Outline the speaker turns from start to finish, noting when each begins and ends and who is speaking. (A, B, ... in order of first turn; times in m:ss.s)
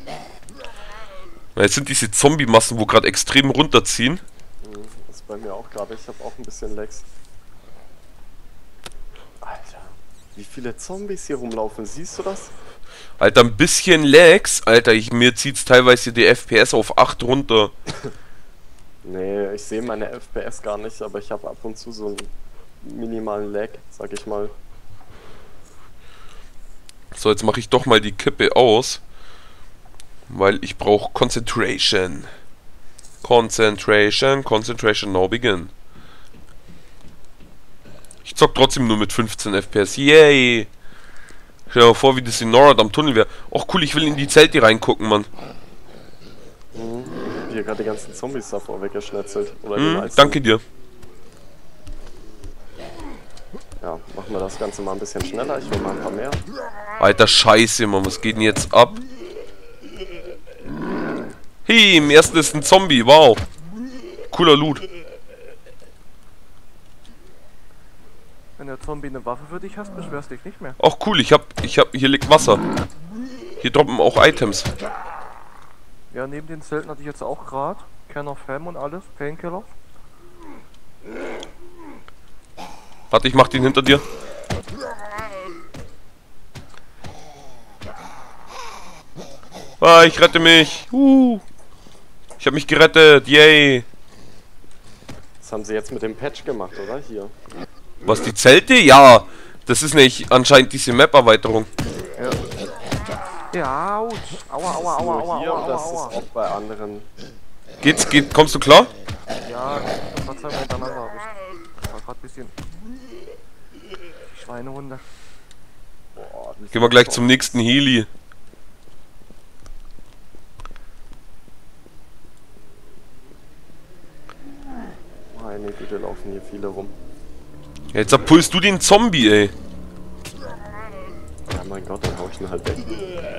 0:01.6-0:04.2 A
0:04.6-0:07.0 B
0:09.4-0:12.5 B
0:13.2-0:17.7 A
0:19.0-0:24.5 B
0:27.1-0:29.0 A
0:30.3-0:32.3 A
0:33.2-0:35.7 A
0:38.2-0:40.7 A
0:41.7-0:45.3 A
0:46.7-0:50.4 B
0:49.8-0:50.6 A
0:53.8-0:56.4 B
0:57.0-0:59.0 A
1:01.6-1:03.4 A
1:04.3-1:04.8 A
1:08.6-1:10.8 C
1:10.8-1:12.6 A
1:13.6-1:14.7 A
1:16.1-1:19.7 C
1:23.1-1:24.0 A
1:29.8-1:31.4 A
1:32.4-1:33.9 A
1:35.4-1:37.3 B
1:38.0-1:41.7 A
1:43.5-1:46.1 C
1:44.8-1:47.1 B
1:47.8-1:48.9 A
1:49.4-1:52.5 C
1:54.3-1:55.0 C
1:56.1-1:57.6 B
1:56.7-1:58.1 A
2:05.3-2:06.9 B
2:07.9-2:09.5 A
2:11.5-2:13.1 B